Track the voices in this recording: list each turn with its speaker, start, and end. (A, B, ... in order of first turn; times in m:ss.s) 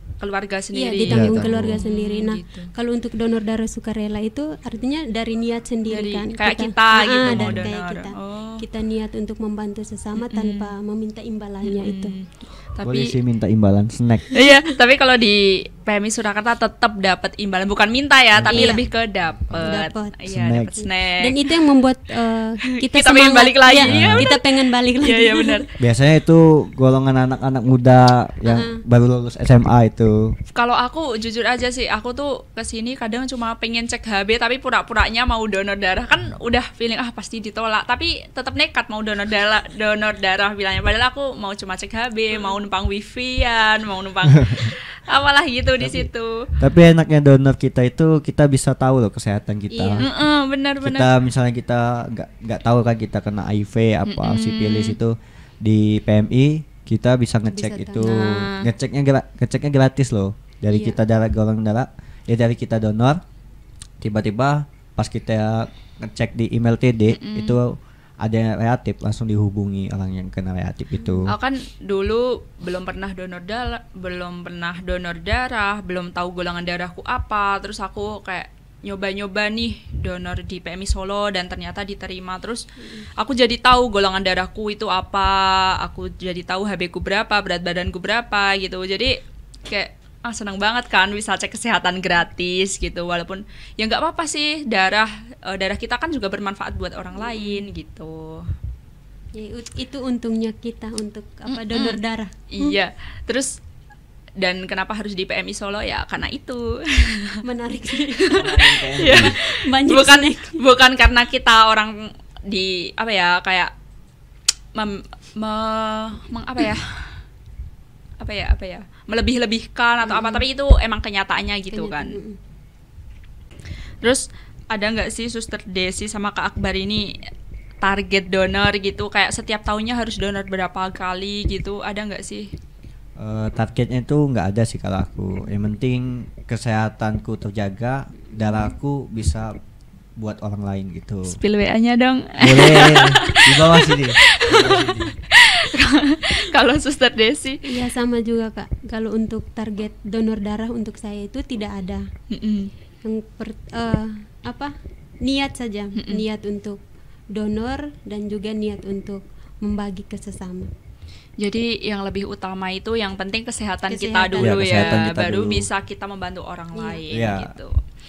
0:00.2-0:02.7 A
0:00.7-0:12.2 B
0:01.1-0:01.8 C
0:05.9-0:08.6 A
0:07.3-0:07.7 C
0:10.2-0:10.7 A
0:11.6-0:13.1 A
0:12.8-0:14.3 C
0:14.4-0:21.6 A
0:14.4-0:14.6 B
0:18.4-0:18.8 C
0:18.5-0:18.8 B
0:19.5-0:20.8 C
0:19.6-0:20.2 B
0:20.8-0:25.6 B
0:22.7-0:25.7 A
0:23.8-0:24.3 C
0:25.8-0:30.3 C
0:28.4-0:28.8 B
0:30.6-0:46.4 A
0:45.8-0:50.0 C
0:49.7-0:50.1 B
0:50.0-0:51.1 A
0:50.8-1:03.2 C
0:54.1-0:55.0 A
0:57.5-0:58.3 B
0:58.0-0:58.7 A
1:00.7-1:01.0 B
1:04.0-1:11.4 C
1:07.1-1:07.6 A
1:11.0-1:11.2 B
1:11.3-1:22.6 A
1:22.8-1:23.1 B
1:23.2-1:29.1 A
1:29.7-1:38.4 A
1:37.2-1:37.7 B
1:39.4-1:42.8 B
1:41.5-1:43.5 A
1:44.4-1:47.4 A
1:47.4-1:50.6 B
1:48.2-1:52.0 A
1:48.4-1:49.4 C
1:52.5-1:53.7 A
1:54.8-1:56.8 A
1:58.2-2:02.2 A
2:00.0-2:00.5 B
2:01.7-2:02.4 B
2:04.0-2:07.1 A
2:07.8-2:12.5 A
2:13.2-2:19.5 C
2:18.4-2:18.7 B
2:20.2-2:21.4 C
2:21.3-2:27.8 A
2:22.4-2:25.1 C
2:27.6-2:32.0 B
2:32.3-2:32.7 A
2:33.0-2:34.7 B
2:35.2-2:36.8 B
2:36.0-2:36.2 A
2:37.3-2:40.7 B
2:41.4-2:47.8 A
2:43.9-2:45.0 B
2:44.4-2:45.7 C
2:46.7-2:47.1 B
2:47.1-2:47.5 C